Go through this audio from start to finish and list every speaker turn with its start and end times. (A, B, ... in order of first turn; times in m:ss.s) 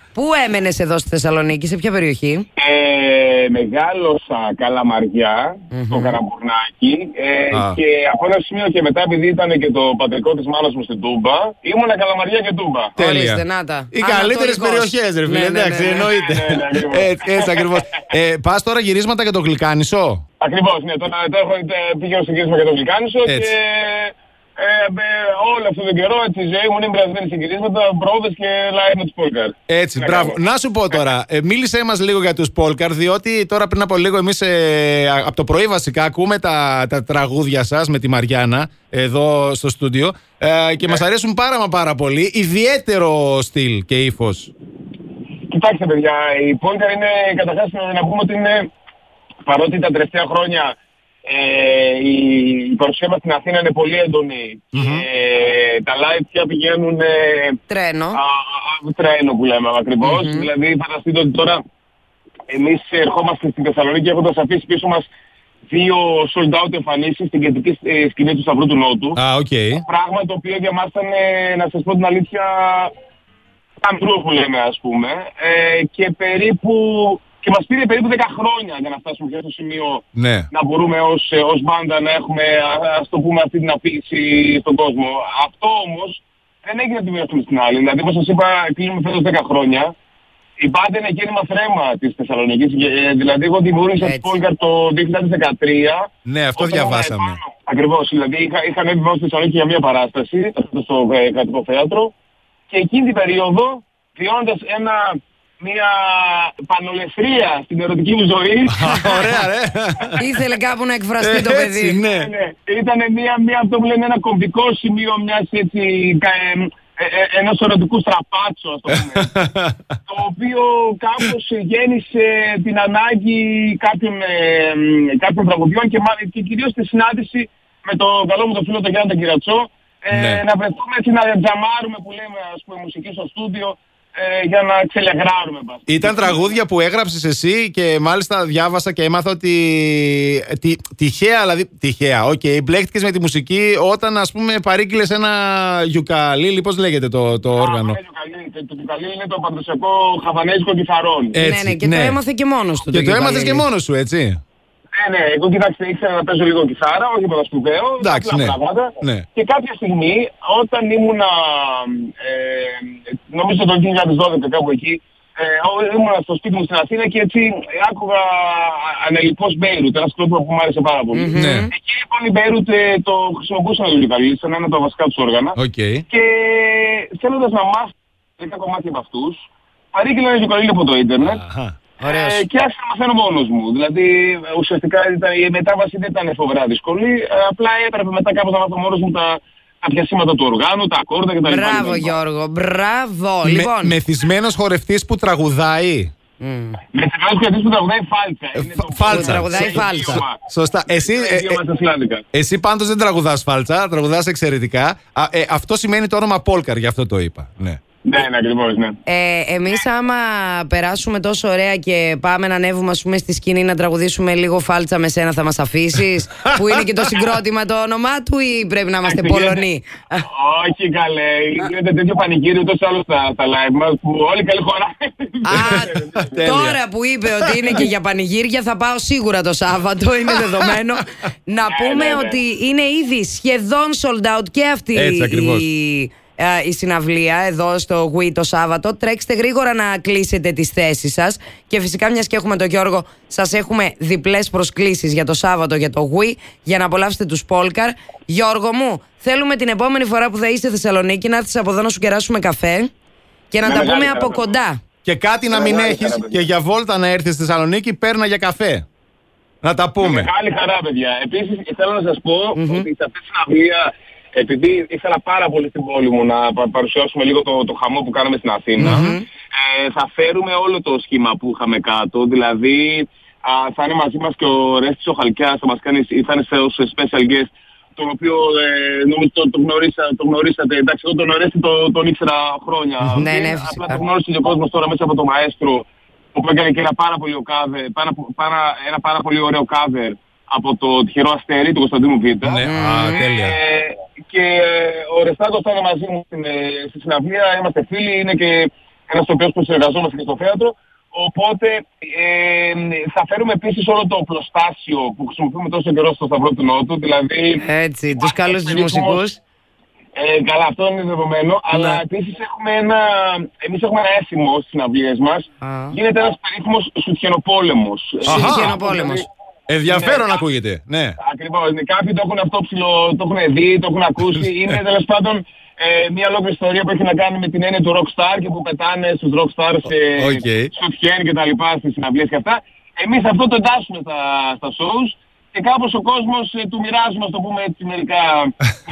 0:00.1-0:02.5 A
0:02.6-0:13.0 B
0:05.7-0:06.2 A
0:07.5-0:07.8 C
0:13.0-0:20.2 C
0:13.0-0:16.1 A
0:16.0-0:17.8 B
0:20.4-0:30.4 B
0:23.3-0:23.5 C
0:29.7-0:44.5 C
0:45.5-0:48.7 B
0:49.5-0:57.6 B
0:54.7-0:55.0 C
0:57.7-0:58.2 A
0:58.1-1:01.6 B
1:00.0-1:00.5 A
1:02.5-1:05.1 B
1:05.7-1:09.2 B
1:09.2-1:09.8 C
1:09.8-1:12.9 B
1:13.8-1:29.9 B
1:20.2-1:20.5 C
1:30.6-1:42.1 B
1:34.0-1:34.4 A
1:36.3-1:37.4 C
1:42.7-1:49.3 B
1:48.7-1:50.2 C
1:50.2-1:52.0 A
1:51.2-1:52.3 C
1:52.0-1:59.3 B
1:58.9-2:00.0 C
2:00.1-2:16.6 B
2:10.1-2:10.4 C
2:15.9-2:28.0 C
2:27.6-2:31.4 B
2:31.3-2:32.2 C
2:31.4-2:33.7 A
2:32.9-2:34.4 C
2:35.0-2:55.6 B
2:38.0-2:39.2 C
2:51.1-2:51.7 A
2:51.4-2:51.7 C
2:55.6-2:56.0 C
2:56.1-2:59.4 B
2:59.9-3:01.4 B
3:01.2-3:01.8 C
3:02.0-3:02.5 A
3:02.1-3:12.1 B
3:11.5-3:13.9 A
3:13.4-3:16.1 C
3:16.4-3:16.8 A
3:16.9-3:22.2 B
3:18.6-3:21.6 C
3:19.1-3:20.2 A
3:22.3-3:27.8 C
3:28.0-3:29.0 B
3:29.1-3:40.2 A
3:36.5-3:37.1 C
3:39.0-3:39.6 B
3:40.2-3:46.5 B
3:45.4-4:12.9 A
3:45.5-3:46.8 C
3:47.4-3:47.9 C
3:51.7-3:52.4 B
3:54.9-3:55.7 C
4:13.5-4:14.8 A
4:13.6-4:14.5 B
4:15.0-4:18.8 C
4:15.5-4:16.4 B
4:19.6-4:20.3 C
4:20.0-5:09.2 B
4:22.6-4:22.9 A
4:28.8-4:29.1 C
4:28.8-4:29.2 A
4:43.2-4:44.0 A
4:52.4-4:53.6 C
4:52.6-4:53.3 A
5:07.6-5:09.4 A
5:10.2-5:19.3 B
5:11.7-5:12.0 C
5:15.6-5:16.0 A
5:18.2-5:19.2 A
5:18.3-5:18.8 C
5:19.7-5:21.2 C
5:19.9-5:20.4 B
5:21.2-5:38.6 B
5:24.2-5:24.8 C
5:30.2-5:30.7 C